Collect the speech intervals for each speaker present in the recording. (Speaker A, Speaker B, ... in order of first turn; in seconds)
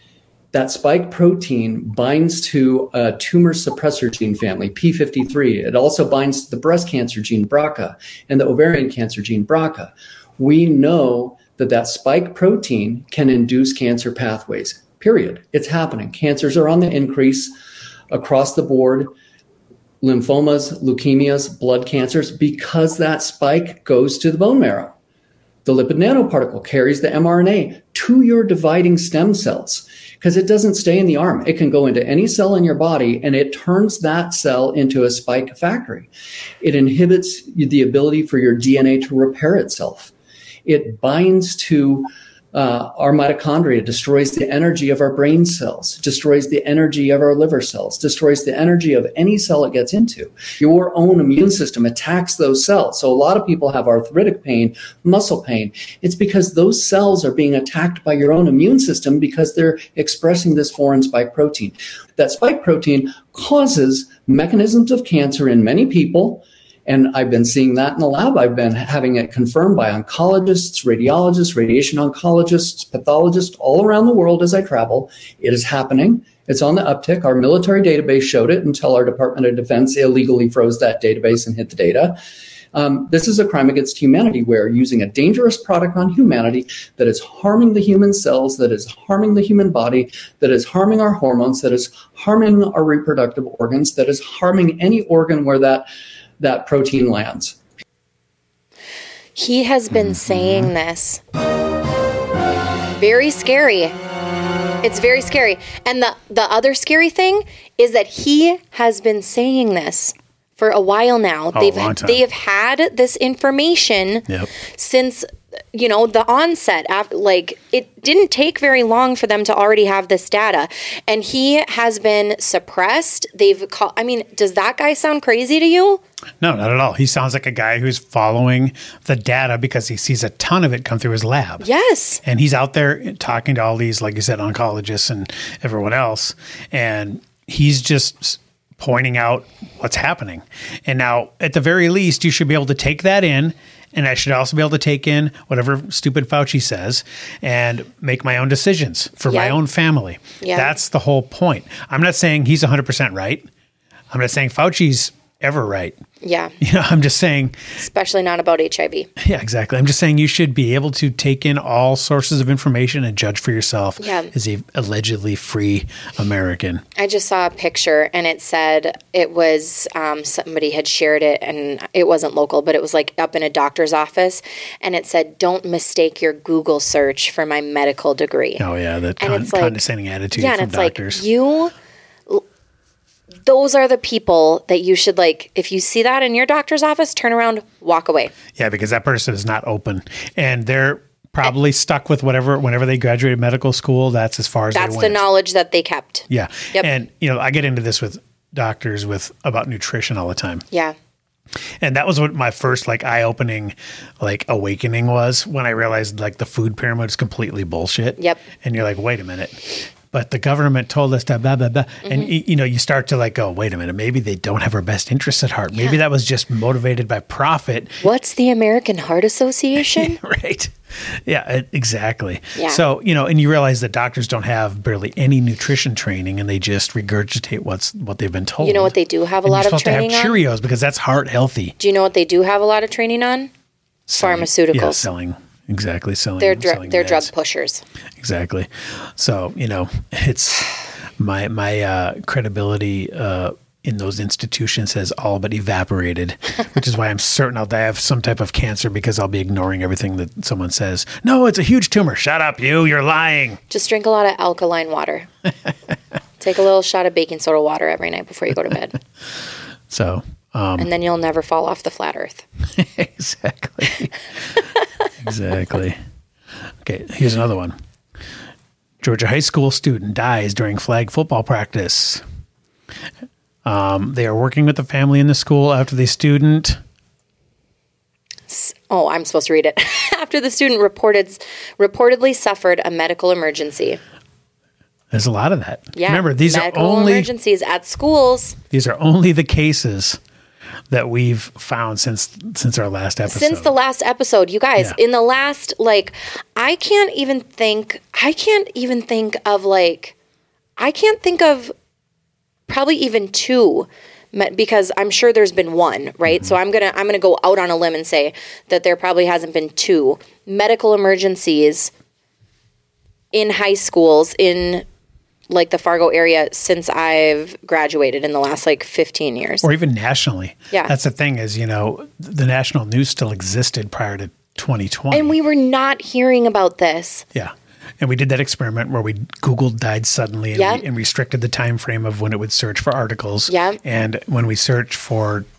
Speaker A: 0.5-17.5, 18.1-19.1, 20.0-24.9, 25.6-36.1, 36.6-40.1, 40.6-82.2, 82.7-95.8, 96.4-97.5
Speaker B: 99.3-101.2, 103.0-103.9, 104.8-126.0, 131.6-132.2, 149.3-149.6, 150.4-150.7, 156.2-156.5, 157.8-159.1, 164.0-164.3, 166.9-178.6, 179.2-179.8, 180.3-181.7, 183.4-188.3, 194.7-196.9, 212.0-212.3, 218.0-220.2, 222.5-222.8, 228.6-230.4, 231.8-233.5, 234.2-235.1, 236.4-237.8, 253.7-255.3, 256.4-259.0, 260.8-262.4, 278.5-284.0, 285.9-288.6, 293.2-300.1, 300.8-301.7, 302.7-311.9, 313.3-314.8, 315.5-319.6, 325.1-327.2, 330.5-330.8, 333.5-333.8
Speaker C: 100.0-100.7, 111.5-112.2, 126.4-131.6, 132.2-153.4, 154.1-155.9, 156.6-157.6, 159.2-166.8, 178.6-181.2, 188.6-195.2, 196.3-200.6, 201.8-218.0, 219.8-228.9, 229.4-231.8, 234.1-237.3, 238.2-253.6, 259.9-260.9, 262.7-264.1, 265.2-266.0, 266.8-267.8, 269.0-272.2, 273.6-276.8, 285.1-287.3, 288.7-290.2, 290.9-293.7, 319.6-325.3, 327.3-335.4